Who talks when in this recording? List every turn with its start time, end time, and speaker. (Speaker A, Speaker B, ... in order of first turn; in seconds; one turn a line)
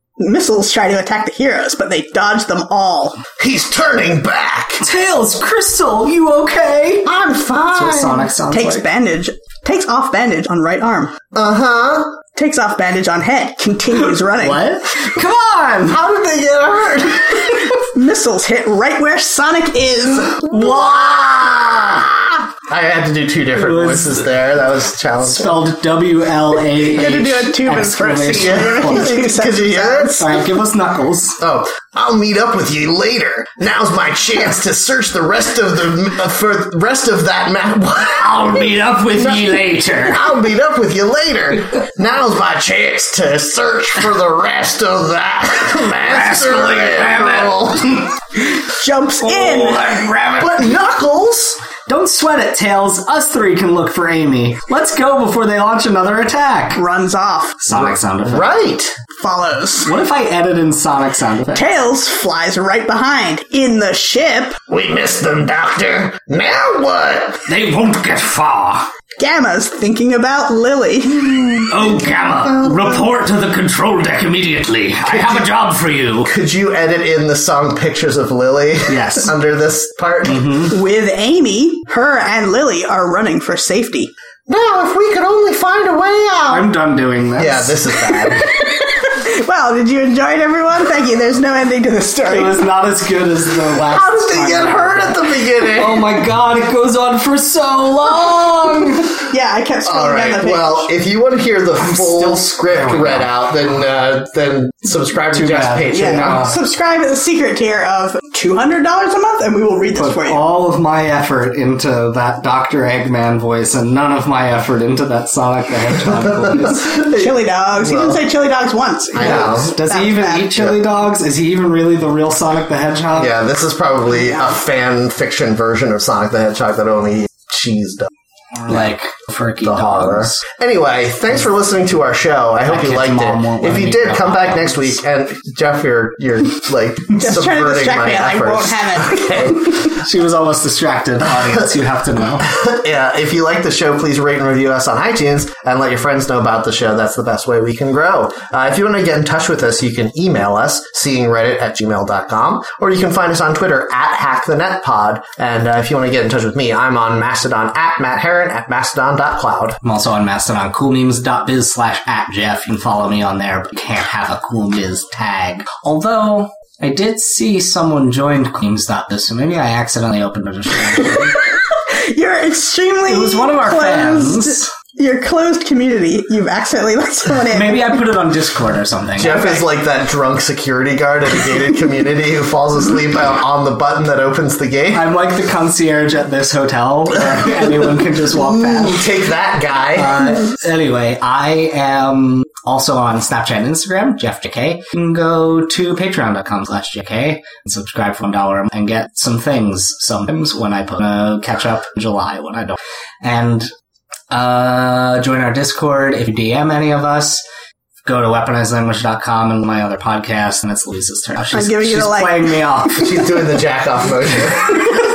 Speaker A: 0.2-3.2
Speaker B: 3.4-4.8
Speaker C: 4.8-7.1
Speaker B: 7.0-8.3
Speaker C: 7.7-8.8
Speaker A: 8.5-11.1
Speaker B: 11.3-12.2
Speaker A: 12.3-14.6
Speaker C: 13.9-16.0
Speaker B: 15.9-17.7
Speaker A: 17.7-20.4
Speaker B: 20.2-25.6
Speaker C: 20.5-22.0
Speaker C: 23.5-24.2
Speaker C: 25.2-29.2
Speaker A: 26.7-30.1
Speaker B: 28.8-30.4
Speaker C: 30.1-31.4
Speaker B: 31.4-48.0
Speaker C: 38.1-40.3
Speaker C: 46.0-48.1
Speaker A: 48.7-50.1
Speaker C: 49.2-50.7
Speaker B: 50.4-51.6
Speaker C: 51.9-56.8
Speaker A: 56.8-57.6
Speaker C: 57.6-58.5
Speaker B: 57.7-58.9
Speaker A: 59.2-59.9
Speaker C: 59.8-61.7
Speaker A: 61.5-64.6
Speaker B: 64.7-67.5
Speaker C: 67.5-68.9
Speaker A: 69.2-71.3
Speaker C: 71.6-76.3
Speaker B: 72.5-72.8
Speaker B: 75.0-75.5
Speaker B: 76.2-80.5
Speaker C: 78.9-79.3
Speaker C: 80.3-80.7
Speaker A: 80.7-84.1
Speaker B: 84.5-86.7
Speaker C: 86.5-88.3
Speaker B: 87.4-88.5
Speaker A: 88.4-92.6
Speaker C: 92.3-99.1
Speaker A: 93.9-94.7
Speaker B: 94.1-96.2
Speaker A: 99.2-100.9
Speaker B: 99.8-106.5
Speaker C: 101.8-103.3
Speaker C: 105.3-106.6
Speaker A: 105.9-110.4
Speaker C: 109.9-116.9
Speaker B: 116.1-118.2
Speaker A: 116.8-120.6
Speaker B: 119.1-119.8
Speaker C: 119.2-123.3
Speaker B: 123.1-128.1
Speaker C: 128.6-130.4
Speaker B: 129.6-139.8
Speaker C: 132.6-135.0
Speaker A: 137.1-139.8
Speaker C: 139.8-142.5
Speaker B: 142.4-159.8
Speaker C: 159.8-171.4
Speaker A: 171.0-178.0
Speaker C: 173.1-174.7
Speaker C: 177.5-179.5
Speaker B: 179.2-185.0
Speaker C: 184.9-189.1
Speaker B: 188.4-190.4
Speaker C: 189.9-203.7
Speaker C: 204.3-207.4
Speaker C: 208.0-213.1
Speaker A: 211.5-213.1
Speaker B: 213.0-215.0